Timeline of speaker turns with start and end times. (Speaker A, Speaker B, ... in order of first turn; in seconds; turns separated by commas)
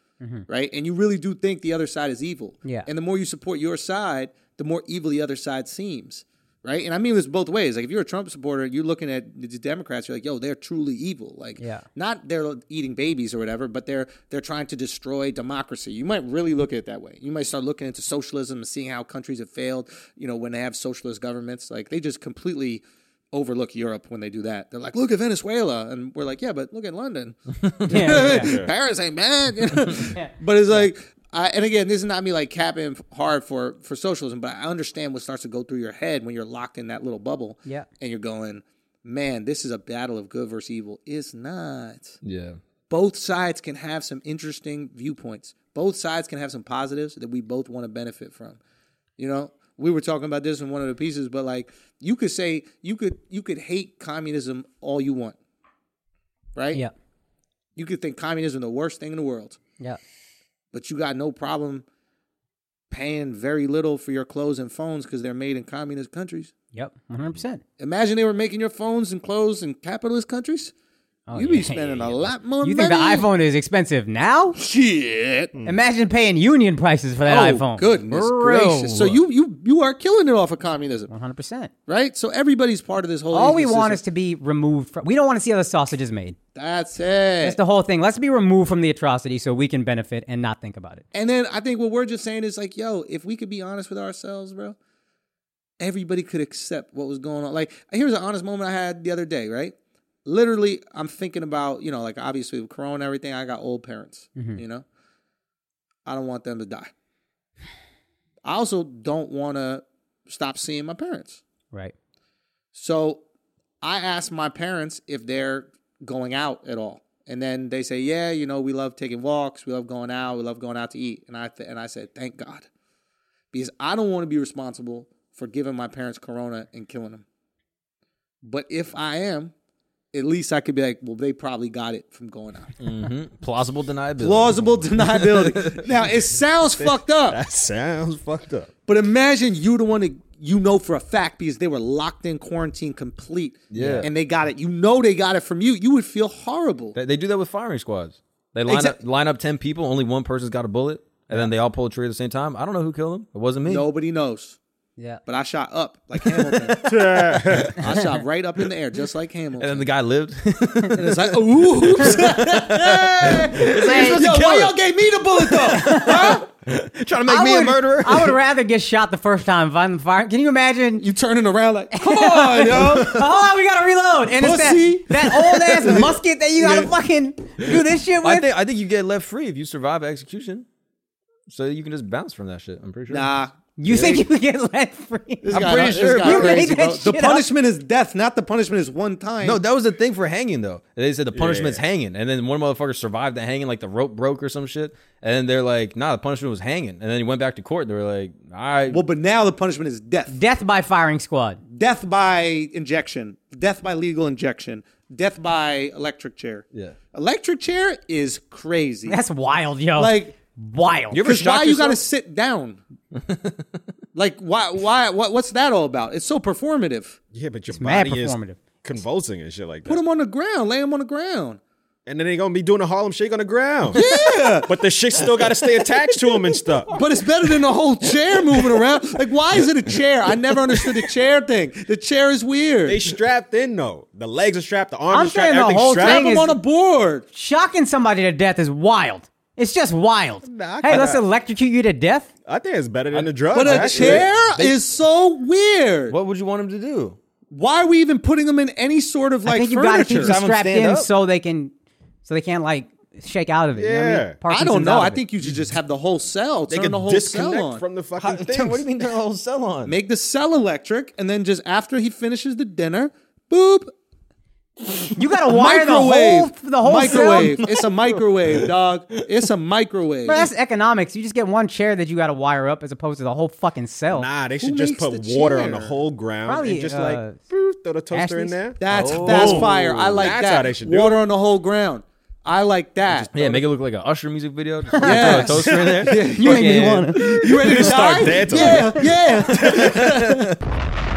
Speaker A: 0.2-0.5, Speaker B: 0.5-42.2, Speaker A: 11.6-11.8, Speaker C: 27.7-28.3, Speaker A: 27.9-28.6, Speaker D: 28.4-28.7, Speaker A: 29.9-30.3, Speaker C: 42.2-42.6, Speaker B: 42.9-48.6, Speaker B: 49.2-55.4, Speaker B: 56.6-56.8, Speaker B: 57.8-59.6, Speaker B: 60.7-61.9, Speaker B: 62.9-66.5, Speaker A: 66.7-67.6, Speaker B: 67.8-70.7, Speaker A: 71.3-74.6, Speaker B: 71.3-73.3, Speaker B: 74.6-75.5, Speaker A: 75.7-79.2, Speaker B: 77.3-81.1, Speaker A: 81.1-81.7, Speaker B: 81.9-84.0, Speaker A: 83.3-86.4, Speaker B: 86.5-87.6, Speaker A: 87.4-91.0, Speaker B: 91.1-94.8, Speaker B: 95.8-104.8, Speaker B: 106.0-106.9, Speaker B: 108.4-111.4, Speaker B: 112.7-113.2, Speaker B: 113.8-122.7, Speaker B: 123.5-127.2, Speaker B: 128.4-129.5, Speaker B: 130.1-132.7, Speaker C: 132.8-135.7, Speaker B: 134.2-137.4, Speaker D: 136.8-138.7, Speaker B: 138.9-147.0, Speaker C: 143.7-144.1, Speaker C: 146.9-153.9, Speaker B: 148.7-149.0, Speaker B: 153.7-154.6, Speaker B: 155.3-157.1, Speaker C: 156.4-158.0, Speaker D: 156.8-157.8, Speaker B: 157.8-159.9, Speaker C: 159.6-164.8, Speaker B: 160.9-166.5, Speaker A: 163.9-164.2, Speaker C: 165.4-168.3, Speaker A: 165.7-166.4, Speaker A: 167.3-171.1, Speaker B: 171.0-173.2, Speaker A: 171.9-178.5, Speaker C: 172.9-173.1, Speaker B: 174.3-176.9, Speaker C: 178.2-180.7, Speaker C: 181.5-183.3, Speaker B: 183.1-184.2, Speaker A: 183.8-187.5, Speaker C: 183.9-184.2, Speaker B: 185.4-189.6, Speaker C: 185.5-186.8, Speaker C: 189.4-199.1, Speaker D: 191.3-191.8, Speaker B: 198.9-200.4, Speaker A: 200.3-201.6, Speaker B: 201.7-209.2, Speaker A: 209.1-211.3, Speaker B: 210.0-210.3, Speaker C: 211.1-212.0, Speaker B: 211.2-212.8, Speaker C: 213.2-213.8, Speaker B: 214.1-217.2, Speaker D: 217.3-220.0, Speaker A: 217.7-218.6, Speaker B: 219.9-221.6, Speaker D: 222.1-226.9, Speaker B: 223.9-224.7, Speaker B: 226.9-233.1, Speaker D: 232.9-236.3, Speaker A: 235.1-236.6, Speaker B: 236.0-237.3, Speaker A: 237.3-242.3, Speaker D: 240.5-241.2, Speaker D: 242.5-244.3, Speaker C: 243.1-244.8, Speaker B: 243.5-246.2, Speaker C: 246.1-247.2, Speaker B: 247.5-250.4, Speaker A: 249.4-251.7, Speaker C: 250.2-251.1, Speaker A: 252.2-255.2, Speaker D: 253.8-254.4, Speaker B: 254.5-257.8, Speaker D: 256.7-258.9, Speaker C: 258.2-260.0, Speaker B: 259.9-263.9, Speaker B: 264.9-270.5, Speaker A: 265.1-267.7, Speaker A: 270.3-274.3, Speaker D: 274.1-281.2, Speaker B: 274.6-276.0, Speaker A: 276.4-277.4, Speaker A: 278.1-278.8, Speaker B: 278.8-283.4, Speaker C: 278.9-280.3, Speaker D: 283.1-283.6, Speaker C: 283.3-287.9, Speaker A: 284.9-287.6, Speaker B: 285.0-290.6, Speaker D: 287.3-290.3, Speaker A: 288.2-289.0